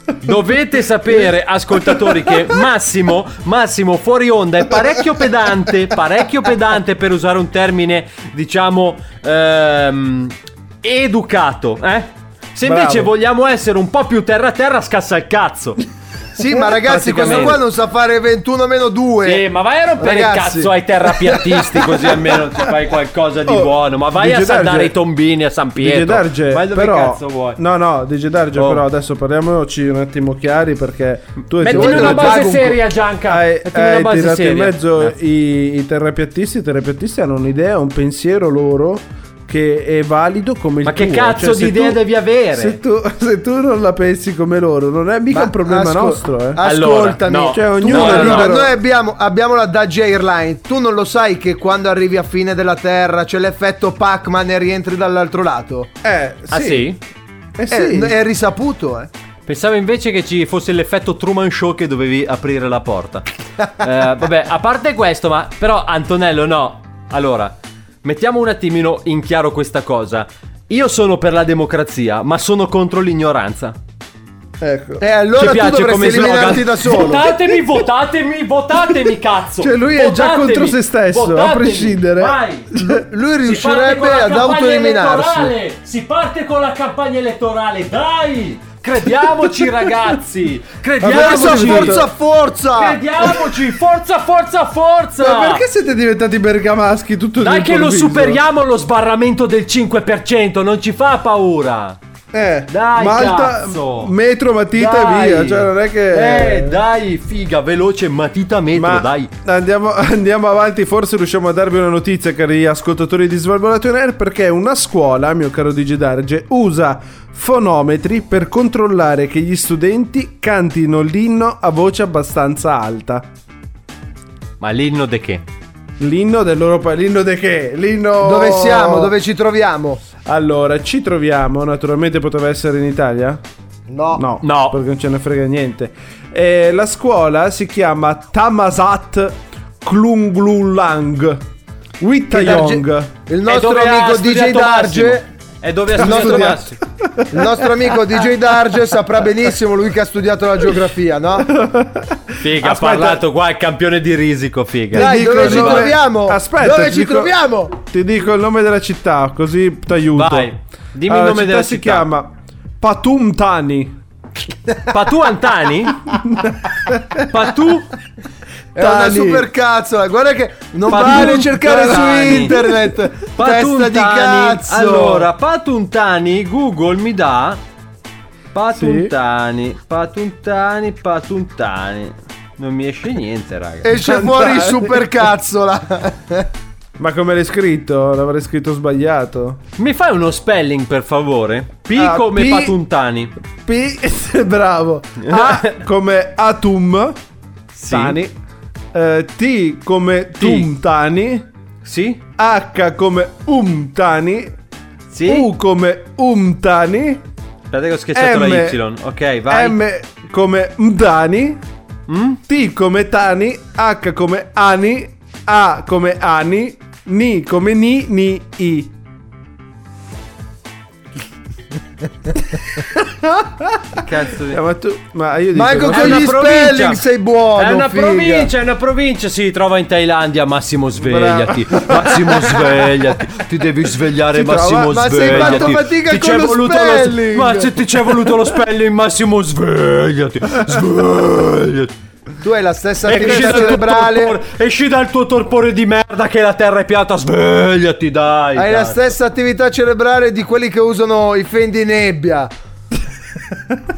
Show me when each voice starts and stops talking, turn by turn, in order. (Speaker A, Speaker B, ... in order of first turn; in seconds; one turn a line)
Speaker A: 0.2-15.8
Speaker B: 12.6-13.1
Speaker C: 16.3-19.4
Speaker A: 16.7-17.6
Speaker A: 19.2-27.6
Speaker C: 20.0-22.0
Speaker B: 23.4-24.9
Speaker B: 25.8-32.6
Speaker A: 28.6-28.8
Speaker A: 31.6-35.1
Speaker C: 31.6-32.8
Speaker B: 33.3-42.0
Speaker A: 40.8-42.8
Speaker B: 42.5-46.6
Speaker C: 45.3-55.9
Speaker A: 46.6-48.6
Speaker B: 47.4-48.7
Speaker B: 56.0-56.9
Speaker A: 56.5-57.0
Speaker B: 57.5-58.2
Speaker C: 57.7-59.1
Speaker A: 59.5-63.2
Speaker A: 63.8-73.8
Speaker B: 74.6-75.0
Speaker C: 75.0-77.3
Speaker A: 75.3-82.7
Speaker B: 79.6-83.0
Speaker C: 82.8-85.5
Speaker A: 83.4-92.0
Speaker B: 91.0-92.1
Speaker C: 91.0-93.0
Speaker A: 92.7-95.6
Speaker B: 95.2-98.4
Speaker A: 97.4-102.0
Speaker B: 102.3-106.8
Speaker A: 102.7-104.1
Speaker A: 104.7-109.3
Speaker B: 108.7-123.3
Speaker A: 124.6-125.4
Speaker B: 126.0-129.1
Speaker C: 128.2-130.0
Speaker B: 130.2-133.4
Speaker C: 133.9-134.2
Speaker B: 134.1-141.4
Speaker A: 134.4-134.8
Speaker B: 142.0-143.1
Speaker C: 142.3-145.2
Speaker A: 143.4-146.8
Speaker C: 145.9-146.6
Speaker B: 146.0-147.5
Speaker C: 147.3-151.5
Speaker B: 151.5-153.2
Speaker A: 152.4-155.9
Speaker B: 154.9-160.5
Speaker C: 154.9-157.7
Speaker A: 160.1-162.1
Speaker B: 161.1-163.9
Speaker A: 164.9-166.1
Speaker B: 166.2-167.2
Speaker A: 167.3-167.9
Speaker B: 168.7-169.5
Speaker C: 168.7-175.3
Speaker A: 170.9-172.6
Speaker B: 170.9-172.8
Speaker A: 173.3-177.6
Speaker A: 178.5-183.9
Speaker B: 178.7-179.1
Speaker C: 183.8-186.5
Speaker B: 183.9-185.2
Speaker B: 187.0-189.6
Speaker A: 189.8-193.3
Speaker B: 191.9-192.8
Speaker B: 193.5-197.2
Speaker A: 195.2-195.8
Speaker A: 197.7-198.2
Speaker B: 197.9-198.3
Speaker B: 198.9-201.5
Speaker A: 200.4-200.7
Speaker A: 201.8-202.2
Speaker B: 202.4-204.5
Speaker A: 205.1-205.5
Speaker B: 205.2-207.2
Speaker A: 207.7-209.8
Speaker B: 208.1-208.8
Speaker B: 209.5-211.6
Speaker A: 212.1-212.4
Speaker B: 212.5-218.9
Speaker B: 222.9-226.3
Speaker A: 223.9-224.6
Speaker C: 225.5-228.5
Speaker A: 225.9-227.0
Speaker A: 227.6-241.9
Speaker B: 231.0-232.7
Speaker B: 234.3-235.8
Speaker C: 234.9-237.7
Speaker C: 242.4-244.4
Speaker A: 243.0-249.0
Speaker B: 243.1-243.8
Speaker C: 248.6-252.5